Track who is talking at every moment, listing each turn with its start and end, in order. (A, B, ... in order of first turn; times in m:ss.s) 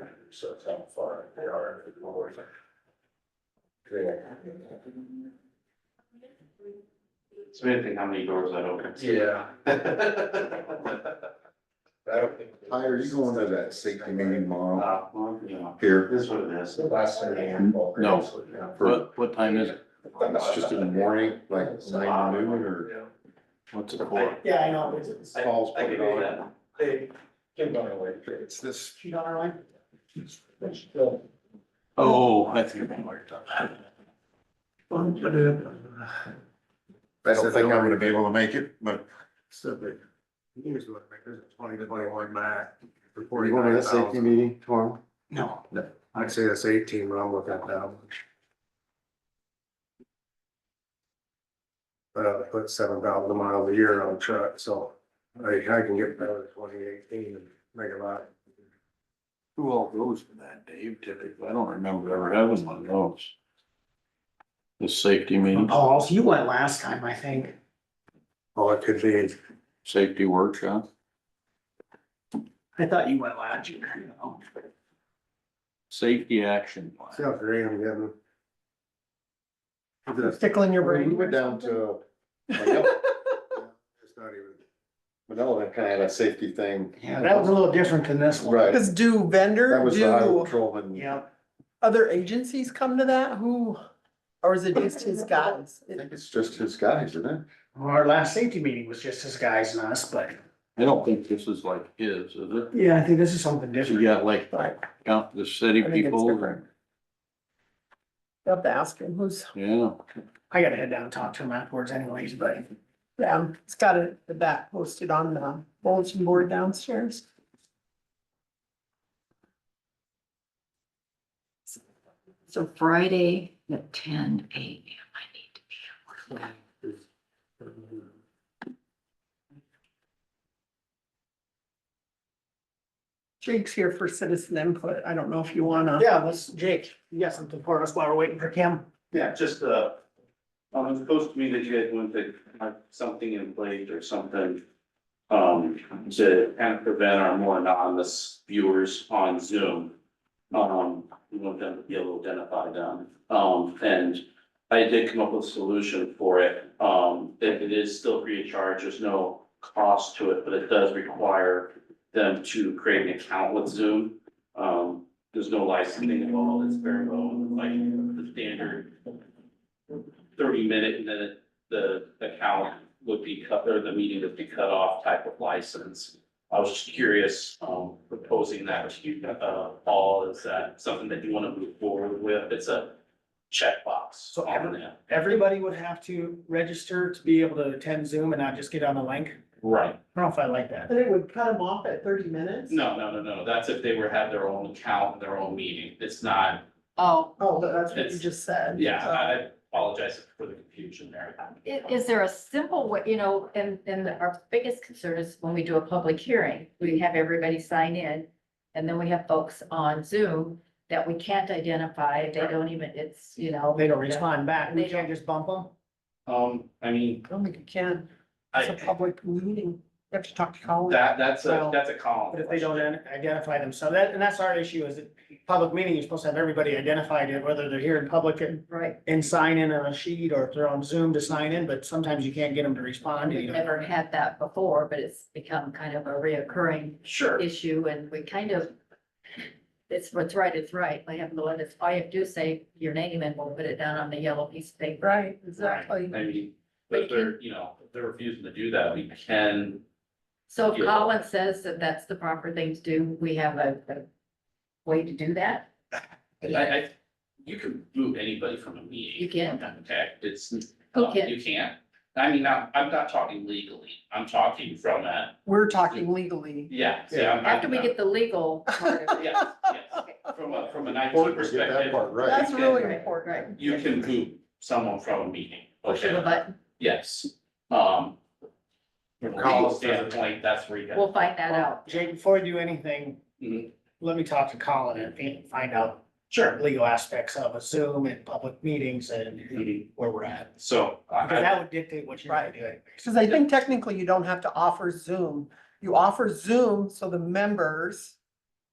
0:00.4-0:01.7 A
0:03.9-0:04.3 A
0:07.4-0:10.7 B
0:12.6-0:14.9 C
0:14.8-0:16.8 B
0:15.8-0:16.1 C
0:17.0-0:17.4 A
0:17.5-0:20.8 D
0:18.5-0:18.8 A
0:20.2-0:22.9 C
0:22.1-0:22.4 B
0:23.7-0:24.4 D
0:24.4-0:25.3 E
0:25.3-0:26.5 B
0:25.3-0:26.4 C
0:28.2-0:29.0 C
0:29.0-0:29.6 E
0:32.0-0:33.7 D
0:34.9-0:36.1 F
0:37.2-0:39.0 C
0:37.3-0:38.2 A
0:39.5-0:40.0 A
0:40.6-0:44.4 A
0:43.4-0:45.0 C
0:45.3-0:45.6 E
0:46.0-0:48.2 A
0:52.1-0:58.3 A
0:59.6-1:03.3 D
1:04.8-1:05.8 D
1:05.5-1:07.5 E
1:08.6-1:09.4 A
1:09.8-1:10.8 D
1:12.8-1:14.4 E
1:15.9-1:17.2 D
1:17.1-1:18.1 A
1:20.1-1:20.4 A
1:20.2-1:21.7 F
1:20.8-1:23.1 C
1:22.6-1:23.1 F
1:23.7-1:24.6 A
1:25.3-1:27.5 C
1:27.0-1:28.6 E
1:28.4-1:28.8 C
1:28.6-1:30.5 F
1:29.6-1:31.0 C
1:30.9-1:31.3 E
1:31.8-1:33.8 F
1:34.4-1:36.0 F
1:35.9-1:37.4 C
1:37.7-1:40.4 E
1:40.8-1:42.7 D
1:42.7-1:44.1 E
1:43.8-1:46.6 D
1:44.5-1:44.8 F
1:45.8-1:46.6 F
1:48.4-1:49.5 F
1:49.5-1:50.0 D
1:50.5-1:52.6 E
1:53.2-1:57.2 F
2:02.5-2:05.8 G
2:13.4-2:16.1 F
2:16.0-2:19.1 E
2:19.1-2:20.0 B
2:20.7-2:24.6 B
2:25.3-2:29.9 B
2:30.5-2:49.1 B
2:50.4-3:02.9 B
3:03.5-3:05.0 B
3:04.3-3:09.4 E
3:09.6-3:10.0 B
3:10.1-3:10.9 E
3:10.9-3:12.8 F
3:12.7-3:16.6 B
3:17.0-3:17.3 G
3:17.4-3:19.4 F
3:17.9-3:18.2 B
3:18.7-3:21.5 B
3:21.6-3:35.1 G
3:33.7-3:35.7 E
3:36.2-3:37.2 B
3:37.3-3:38.1 F
3:38.5-3:38.9 B
3:38.6-3:41.7 F
3:40.8-3:42.9 B
3:42.3-3:53.7 E
3:48.7-3:49.0 G
3:53.2-3:58.7 G
3:57.0-3:57.4 B
3:59.9-4:05.9 G
4:05.0-4:06.2 F
4:06.1-4:09.8 B
4:06.9-4:07.3 G
4:10.5-4:14.1 G
4:10.6-4:11.2 B
4:14.8-4:15.7 G
4:16.4-4:16.9 B
4:17.4-4:25.4 B
4:19.2-4:19.6 G
4:20.9-4:21.3 G
4:25.4-4:26.7 F
4:26.7-4:28.0 B
4:27.4-4:30.6 G
4:29.2-4:32.9 B
4:31.1-4:32.5 C
4:32.2-4:33.5 F
4:32.6-4:33.5 G
4:33.5-4:38.2 B
4:35.8-4:36.5 G
4:39.2-4:41.1 B
4:39.3-4:40.2 C
4:40.9-4:42.0 G
4:41.5-4:43.2 E
4:43.4-4:43.7 B
4:44.0-4:50.6 E
4:46.3-4:46.6 B
4:49.5-4:49.8 B
4:50.6-4:51.6 B
4:51.2-4:53.3 E
4:52.3-4:58.2 F